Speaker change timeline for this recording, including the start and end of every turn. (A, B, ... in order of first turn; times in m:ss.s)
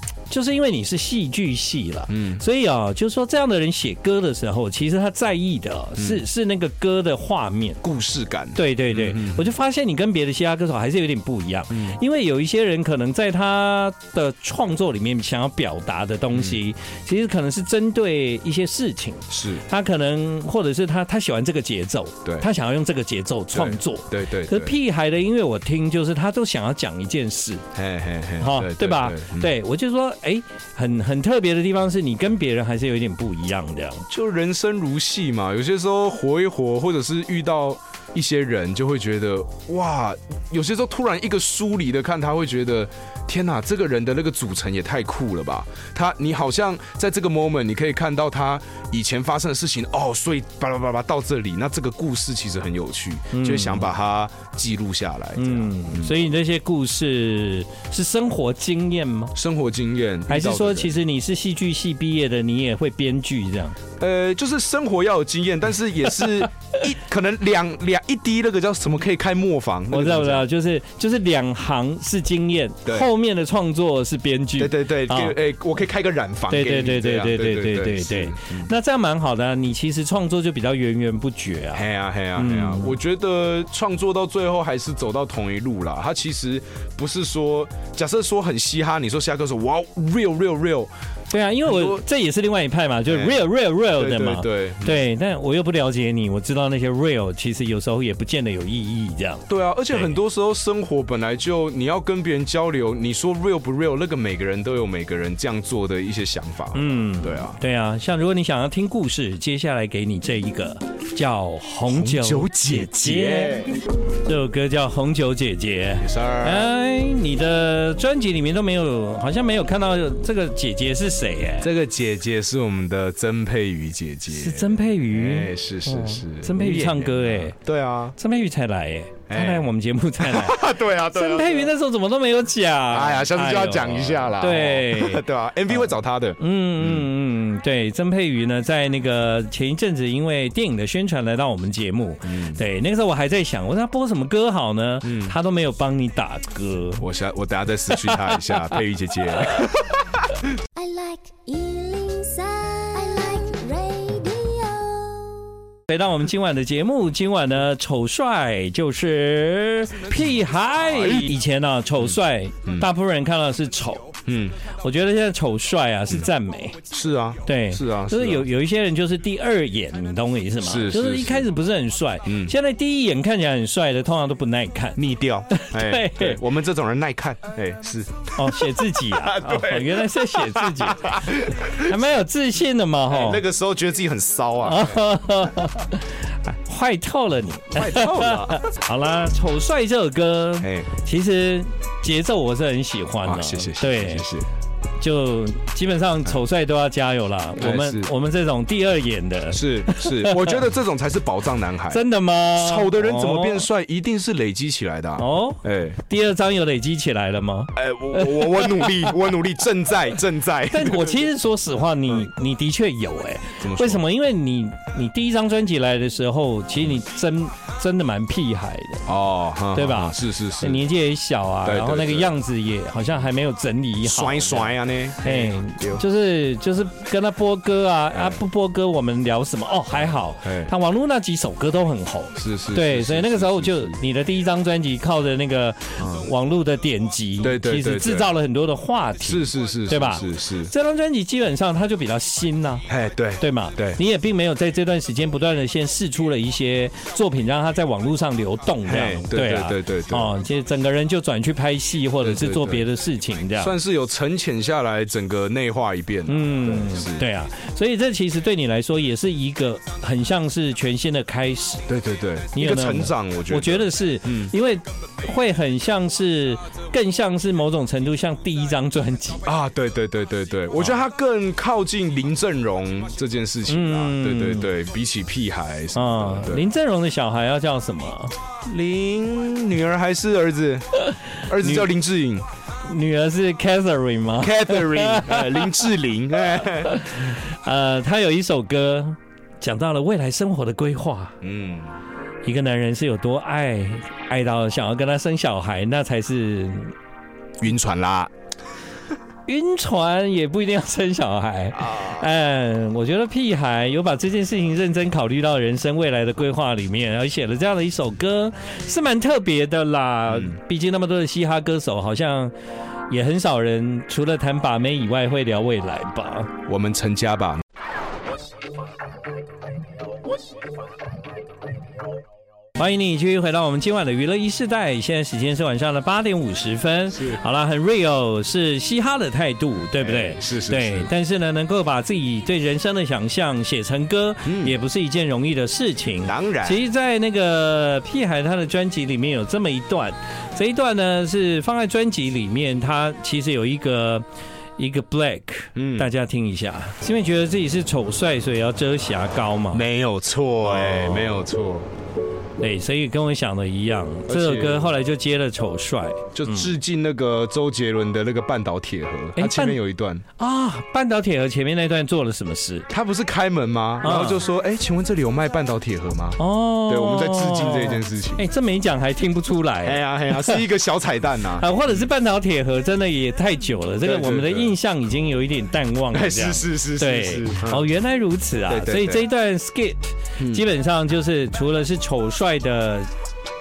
0:00.3-0:07.8 A
0:02.1-0:02.4 B
0:06.0-0:06.2 B
0:07.8-0:09.5 B
0:08.5-0:27.6 A
0:16.3-0:16.6 B
0:19.3-0:19.6 B
0:23.5-0:24.8 B
0:27.7-0:29.5 B
0:28.4-0:34.1 A
0:34.1-0:56.2 B
0:53.3-0:53.9 A
0:55.4-0:59.3 A
0:59.3-1:01.0 B
1:00.3-1:03.8 A
1:04.0-1:10.5 B
1:09.9-1:15.3 A
1:14.6-1:18.7 B
1:16.5-1:21.8 A
1:21.7-1:30.9 B
1:22.4-1:22.9 A
1:31.3-1:40.2 A
1:31.6-1:32.0 B
1:33.1-1:35.0 B
1:39.5-1:47.6 B
1:46.7-2:01.7 A
1:51.8-1:53.8 B
1:56.0-1:56.7 B
2:01.6-2:08.2 B
2:04.3-2:07.6 A
2:08.2-2:27.0 A
2:09.3-2:09.7 B
2:10.2-2:11.7 B
2:12.9-2:17.1 B
2:22.2-2:22.6 B
2:25.0-2:25.4 B
2:27.0-2:30.4 B
2:28.0-2:28.6 A
2:30.7-2:35.5 C
2:35.9-2:44.1 A
2:40.8-2:41.4 B
2:42.0-2:42.9 B
2:44.2-2:44.6 B
2:44.8-2:46.8 A
2:46.9-2:48.5 B
2:47.4-2:55.0 A
2:50.6-2:51.5 B
2:52.2-2:52.5 B
2:55.0-3:02.0 B
2:55.5-2:56.4 A
2:58.3-3:03.4 A
3:03.1-3:05.0 B
3:04.6-3:14.2 A
3:07.7-3:08.6 B
3:10.6-3:10.9 B
3:13.2-3:14.5 B
3:15.0-3:20.6 A
3:17.6-3:18.1 B
3:19.5-3:22.0 B
3:21.9-3:23.7 A
3:22.5-3:26.0 B
3:25.2-3:29.2 A
3:27.7-3:31.3 B
3:30.7-3:39.1 A
3:33.6-3:34.0 B
3:39.1-3:40.9 B
3:39.7-4:02.8 A
3:41.6-3:42.3 B
3:44.0-3:46.0 B
3:48.1-3:48.4 B
3:50.4-3:50.7 B
3:52.4-3:54.0 B
3:56.0-3:56.3 B
3:57.4-3:58.3 B
3:59.2-4:00.7 B
4:02.9-4:04.0 B
4:03.4-4:13.7 A
4:08.8-4:10.3 B
4:12.2-4:12.8 B
4:13.6-4:17.2 B
4:16.3-4:21.8 A
4:21.9-4:24.5 B
4:22.5-4:29.4 A
4:29.4-4:36.7 B
4:33.7-4:34.7 A
4:35.9-4:38.4 A
4:38.6-4:42.4 B
4:41.1-4:41.9 A
4:42.8-4:45.8 A
4:44.4-4:47.1 B
4:46.8-4:51.4 A
4:51.4-4:51.9 B
4:52.4-4:56.9 A
4:57.6-4:58.3 B
4:59.5-5:12.5 A
5:01.8-5:02.1 B
5:13.1-5:16.5 A
5:16.7-5:17.6 B
5:22.8-5:44.2 A
5:27.1-5:27.4 B
5:30.0-5:31.1 B
5:34.4-5:34.8 B
5:36.2-5:36.8 B
5:44.8-5:49.8 A
5:45.7-5:46.1 B
5:49.7-5:51.9 B
5:50.6-5:51.3 A
5:52.6-5:56.7 A
5:54.3-5:54.9 B
5:56.3-6:00.2 B
5:59.4-5:59.8 A
6:00.4-6:02.9 A
6:02.9-6:08.4 B
6:04.0-6:04.4 A
6:06.4-6:10.6 A
6:09.8-6:12.1 B
6:11.6-6:23.1 A
6:14.0-6:14.7 B
6:16.1-6:17.8 B
6:18.6-6:19.3 B
6:20.4-6:20.6 B